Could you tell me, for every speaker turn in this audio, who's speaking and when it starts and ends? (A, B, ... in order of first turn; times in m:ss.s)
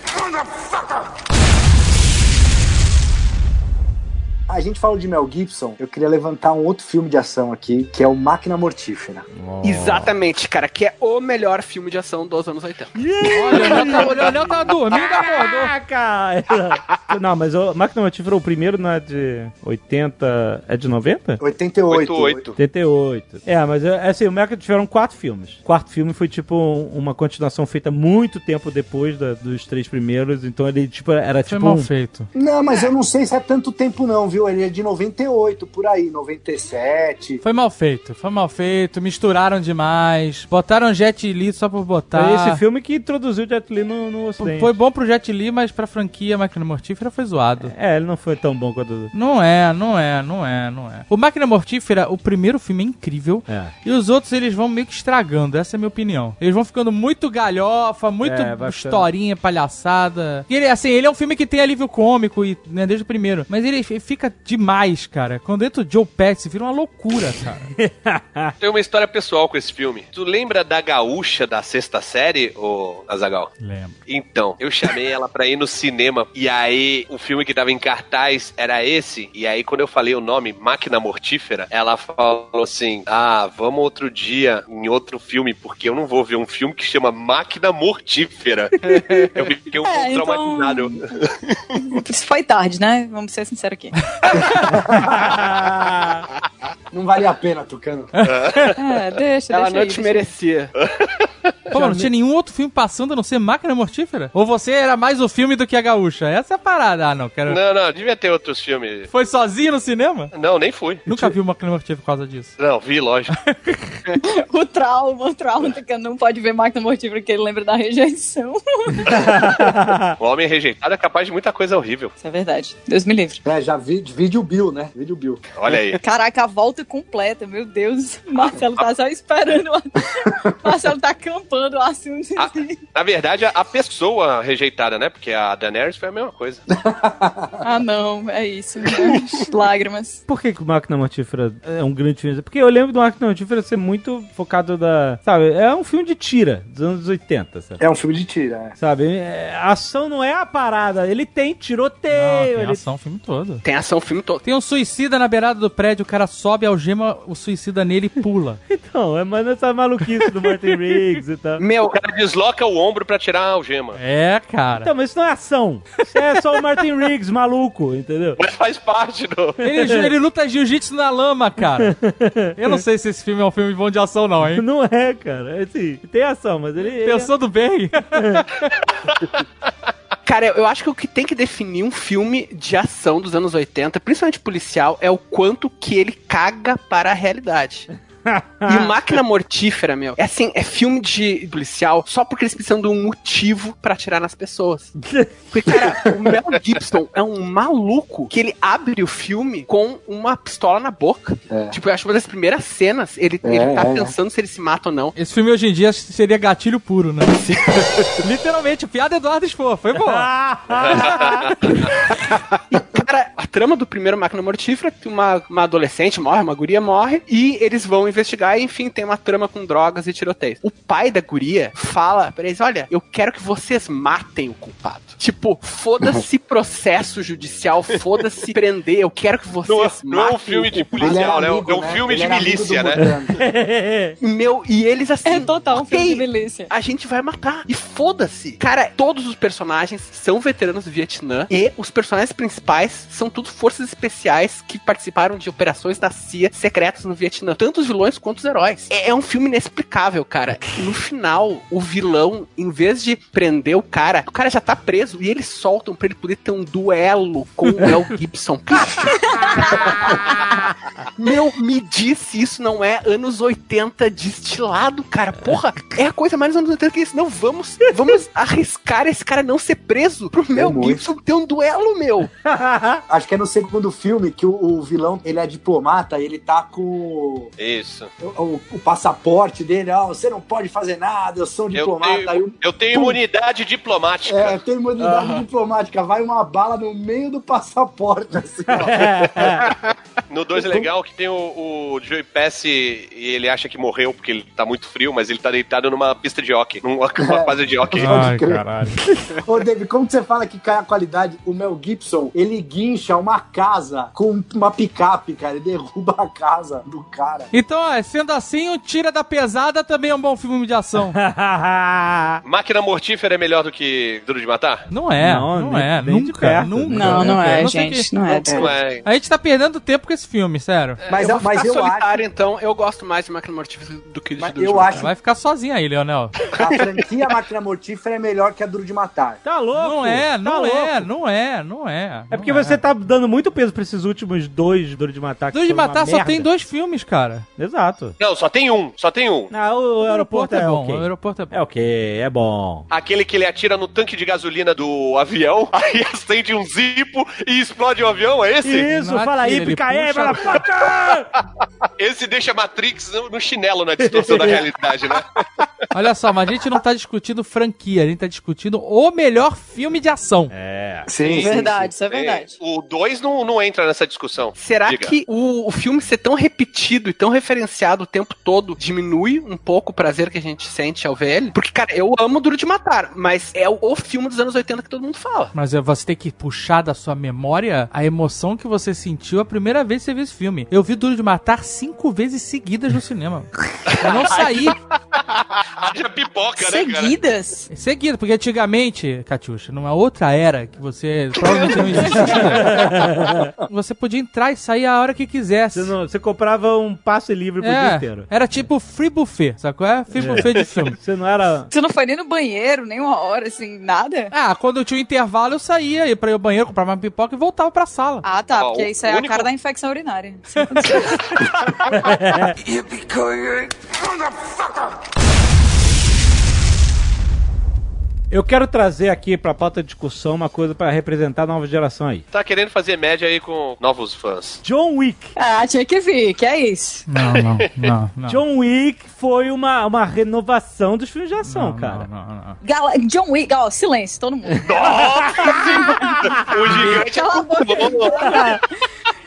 0:04.5-0:09.2 A
0:09.3-0:10.1 B
0:09.6-0:12.9 C
0:12.9-0:14.4 B
0:13.2-0:15.7 D
0:15.2-0:21.4 B
0:21.4-0:22.5 A
0:21.9-0:22.5 E
0:22.6-0:31.9 B
0:31.5-0:32.3 D
0:32.3-0:37.4 A
0:37.4-0:42.6 D
0:42.1-0:44.7 B
0:44.4-0:47.7 D
0:47.6-0:49.1 B
0:49.1-1:07.7 D
0:53.5-0:53.7 B
0:58.2-0:59.1 B
1:07.8-1:08.5 B
1:08.6-1:13.5 E
1:13.6-1:14.0 D
1:14.1-1:28.8 E
1:29.3-1:31.3 E
1:29.8-1:31.0 F
1:31.9-1:33.9 F
1:34.6-1:35.4 A
1:35.2-1:36.2 B
1:36.9-1:38.1 A
1:38.2-1:38.7 D
1:38.2-1:38.8 E
1:38.8-1:40.3 F
1:39.5-1:40.7 C
1:41.7-1:47.6 D
1:41.7-1:42.1 B
1:47.5-1:49.1 E
1:49.1-1:50.3 D
1:50.3-1:51.0 E
1:51.0-1:52.5 D
1:52.6-1:53.3 E
1:53.3-1:53.8 D
1:54.2-1:59.3 F
1:59.1-2:00.1 B
2:00.2-2:02.1 E
2:02.2-2:03.4 F
2:03.4-2:05.4 A
2:05.5-2:06.0 E
2:05.9-2:12.8 F
2:08.4-2:08.8 E
2:12.4-2:16.6 E
2:16.7-2:17.6 A
2:17.6-2:20.2 F
2:20.3-2:27.8 B
2:27.8-2:28.8 A
2:28.8-2:32.8 B
2:32.1-2:33.6 D
2:33.6-2:34.4 C
2:34.4-2:38.6 D
2:38.7-2:41.6 B
2:40.7-2:41.0 D
2:41.6-2:42.0 C
2:41.8-2:44.0 E
2:44.0-2:44.9 D
2:44.7-2:48.4 B
2:48.4-2:49.6 E
2:49.6-2:51.9 D
2:49.7-2:50.1 B
2:51.8-2:52.8 B
2:52.6-2:54.6 D
2:54.5-2:57.3 B
2:56.9-2:58.4 D
2:58.1-2:58.4 B
3:00.2-3:07.9 C
3:08.2-3:08.9 B
3:08.6-3:14.9 C
3:15.0-3:15.3 B
3:15.5-3:25.1 C
3:21.5-3:21.7 A
3:23.4-3:24.1 A
3:25.2-3:27.4 D
3:28.2-3:30.3 D
3:29.9-3:31.7 B
3:30.8-3:31.5 E
3:32.7-3:51.4 C
3:49.6-3:53.1 E
3:50.9-3:53.4 A
3:53.0-3:54.2 B
3:54.2-4:19.2 C
3:55.2-3:56.7 F
4:19.0-4:19.8 F
4:21.2-4:32.3 C
4:30.5-4:31.1 A
4:32.4-4:33.0 B
4:33.1-4:37.5 A
4:37.6-4:38.1 E
4:38.2-4:43.2 A
4:41.7-4:44.6 E
4:44.3-4:49.6 A
4:45.0-4:45.3 B
4:48.7-4:49.7 B
4:50.3-4:58.4 E
4:50.6-4:50.9 A
4:57.2-4:58.6 A
4:58.0-4:59.0 D
4:59.4-5:07.5 A
5:07.5-5:11.1 D
5:11.0-5:12.4 B
5:12.4-5:14.8 E
5:14.9-5:18.1 D
5:15.2-5:17.4 B
5:16.9-5:18.7 F
5:18.4-5:19.0 E
5:18.4-5:18.7 A
5:19.0-5:21.0 D
5:21.0-5:25.0 C
5:21.1-5:22.2 A
5:24.4-5:25.1 A
5:25.0-5:26.4 D
5:26.5-5:29.4 A
5:29.4-5:31.1 B
5:29.8-5:32.8 D
5:32.3-5:36.5 B
5:35.5-5:37.4 D
5:37.6-5:38.2 B
5:38.2-5:39.5 E
5:39.5-5:42.8 B
5:40.0-5:41.5 D
5:42.9-5:48.9 E
5:48.6-5:51.3 B
5:48.8-5:50.5 D
5:52.0-5:55.6 E
5:54.0-5:54.6 B
5:55.9-6:00.5 D
6:00.5-6:01.1 B
6:01.0-6:01.9 A
6:01.2-6:05.1 E
6:01.2-6:02.6 F
6:04.5-6:15.5 C
6:15.5-6:24.8 D
6:23.9-6:24.7 E
6:25.8-6:27.2 E
6:26.6-6:27.7 F
6:27.7-6:32.9 D
6:32.0-6:33.5 B
6:33.7-6:35.9 D
6:35.7-6:38.3 B
6:37.6-6:41.0 D
6:40.1-6:41.7 B
6:41.7-6:44.3 F
6:44.3-6:48.2 D
6:48.2-6:51.3 F
6:48.6-6:49.5 E
6:51.9-6:52.6 B
6:58.3-7:02.2 B
7:02.3-7:04.6 E
7:04.6-7:05.3 B
7:05.4-7:07.1 F
7:07.1-7:08.4 D
7:08.3-7:12.1 B
7:11.4-7:12.6 D
7:12.6-7:16.2 F
7:14.6-7:18.6 E
7:14.8-7:16.9 B
7:16.7-7:18.6 F
7:18.2-7:18.6 B